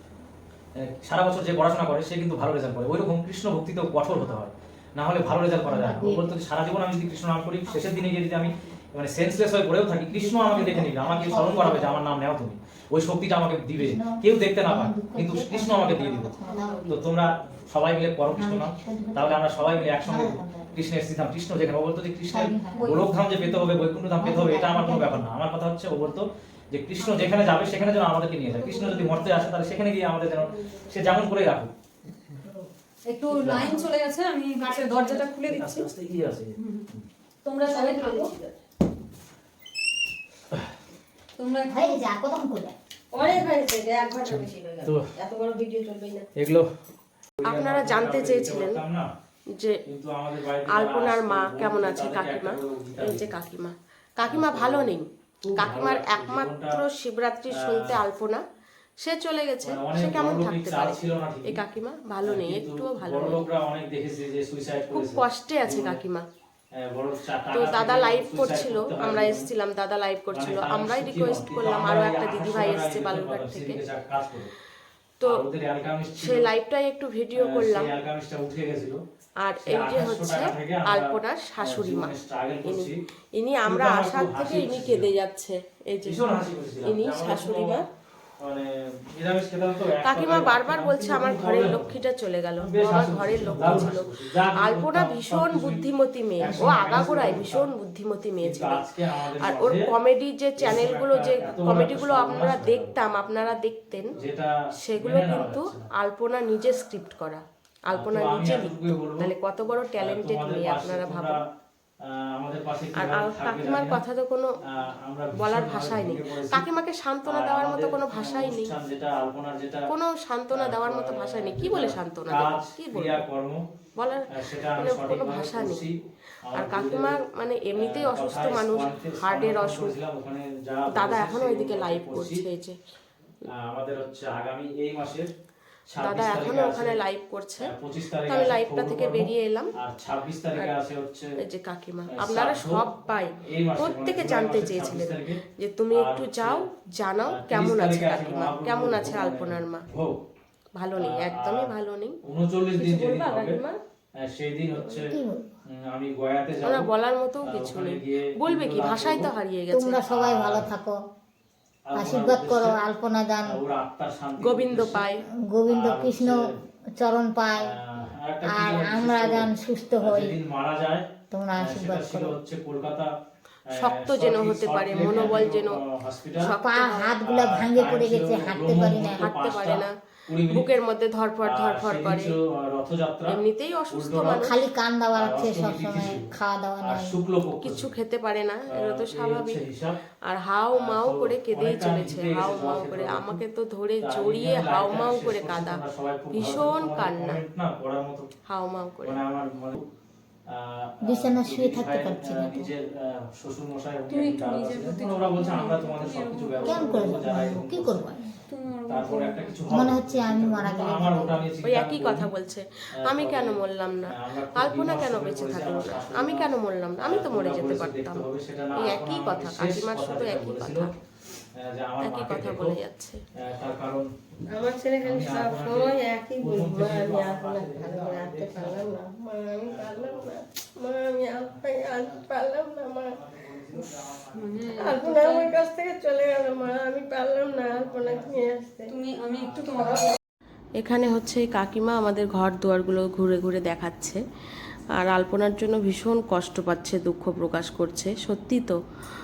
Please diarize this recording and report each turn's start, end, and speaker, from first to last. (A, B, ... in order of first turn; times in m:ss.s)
0:00.8-0:16.3 A
0:05.7-0:06.4 B
0:10.1-0:12.0 B
0:13.8-0:16.9 B
0:16.5-0:16.9 C
0:16.5-0:17.0 D
0:16.9-0:31.7 A
0:18.4-0:20.7 B
0:22.3-0:23.1 B
0:22.8-0:23.1 E
0:24.2-0:25.2 B
0:27.0-0:27.6 E
0:28.6-0:29.5 E
0:30.5-0:30.9 C
0:33.1-0:35.9 E
0:33.4-0:33.8 A
0:33.5-0:33.9 C
0:34.7-0:35.2 D
0:35.5-0:37.0 A
0:36.6-0:36.9 E
0:37.4-0:38.3 E
0:37.6-0:38.6 C
0:41.4-0:42.0 E
0:41.7-0:42.8 B
0:43.1-0:46.3 C
0:44.2-0:45.1 A
0:46.4-0:46.7 A
0:47.4-0:49.1 A
0:47.4-0:48.8 D
0:49.5-0:49.8 D
0:49.9-0:53.3 A
0:50.7-0:58.4 D
0:54.3-0:56.8 A
0:57.5-0:58.0 A
0:59.0-1:03.4 D
0:59.6-1:01.6 A
1:02.2-1:06.0 A
1:04.9-1:06.2 D
1:06.7-1:09.5 A
1:07.5-1:13.8 D
1:10.3-1:14.5 A
1:15.2-1:16.5 A
1:16.2-1:17.9 D
1:17.4-1:19.0 A
1:19.4-1:26.2 D
1:19.6-1:23.0 A
1:23.6-1:25.1 A
1:26.0-1:27.8 A
1:26.8-1:27.9 D
1:28.4-1:32.0 A
1:30.0-1:38.8 D
1:32.6-1:35.8 A
1:36.4-1:37.7 A
1:38.4-1:39.9 A
1:39.4-1:44.2 D
1:40.6-1:43.0 A
1:44.2-1:45.9 A
1:44.8-1:51.4 D
1:47.9-1:49.3 A
1:50.0-1:51.4 A
1:52.0-1:54.0 A
1:53.0-1:54.5 D
1:54.6-1:56.6 A
1:55.3-1:58.7 D
1:57.2-1:59.9 A
1:59.9-2:03.2 D
2:00.5-2:03.6 A
2:04.0-2:05.9 D
2:04.3-2:07.2 A
2:06.5-2:10.0 D
2:07.7-2:12.4 A
2:10.9-2:12.8 D
2:13.5-2:15.3 A
2:15.9-2:17.0 A
2:16.0-2:17.7 D
2:17.6-2:21.3 A
2:18.3-2:19.7 D
2:21.4-2:29.9 D
2:22.1-2:22.9 A
2:23.4-2:26.7 A
2:27.3-2:30.2 A
2:30.8-2:32.2 D
2:31.0-2:31.7 A
2:32.2-2:33.6 A
2:32.8-2:33.8 D
2:34.2-2:36.9 A
2:35.1-2:35.4 B
2:36.6-2:40.0 D
2:37.4-2:39.3 A
2:39.7-2:41.0 B
2:40.1-2:40.7 A
2:41.9-2:42.8 A
2:42.0-2:43.6 B
2:43.4-2:45.0 A
2:44.4-2:45.2 D
2:45.4-2:46.4 B
2:45.7-2:46.6 A
2:47.0-2:47.8 B
2:47.6-2:53.1 A
2:48.5-2:50.4 B
2:51.3-2:52.4 B
2:53.7-2:56.6 A
2:53.7-2:55.8 D
2:56.4-2:57.2 D
2:56.5-2:59.2 B
2:57.2-3:00.7 A
2:59.2-3:00.0 D
3:00.5-3:02.4 D
3:01.4-3:04.5 A
3:03.3-3:04.6 D
3:04.4-3:07.2 B
3:05.2-3:06.3 A
3:06.8-3:07.9 A
3:07.6-3:09.6 D
3:08.7-3:10.0 A
3:10.3-3:17.4 D
3:10.7-3:13.4 A
3:14.0-3:18.3 A
3:18.5-3:19.2 D
3:19.0-3:19.9 A
3:20.5-3:28.2 A
3:21.0-3:22.7 B
3:24.1-3:27.2 E
3:26.6-3:28.3 B
3:28.5-3:29.7 E
3:28.9-3:32.3 A
3:29.7-3:31.4 B
3:31.6-3:38.3 D
3:33.0-3:40.9 A
3:38.8-3:40.9 D
3:41.5-3:42.8 A
3:42.0-3:43.2 D
3:43.4-3:44.1 A
3:44.5-3:53.2 C
3:45.0-3:49.0 A
3:49.6-3:50.4 A
3:51.4-3:52.3 A
3:53.0-3:54.8 A
3:54.4-3:55.5 E
3:54.8-3:58.9 C
3:56.2-3:58.4 A
3:58.9-4:00.2 E
3:59.3-3:59.8 A
3:59.7-4:00.1 C
4:00.8-4:04.2 D
4:05.0-4:08.8 D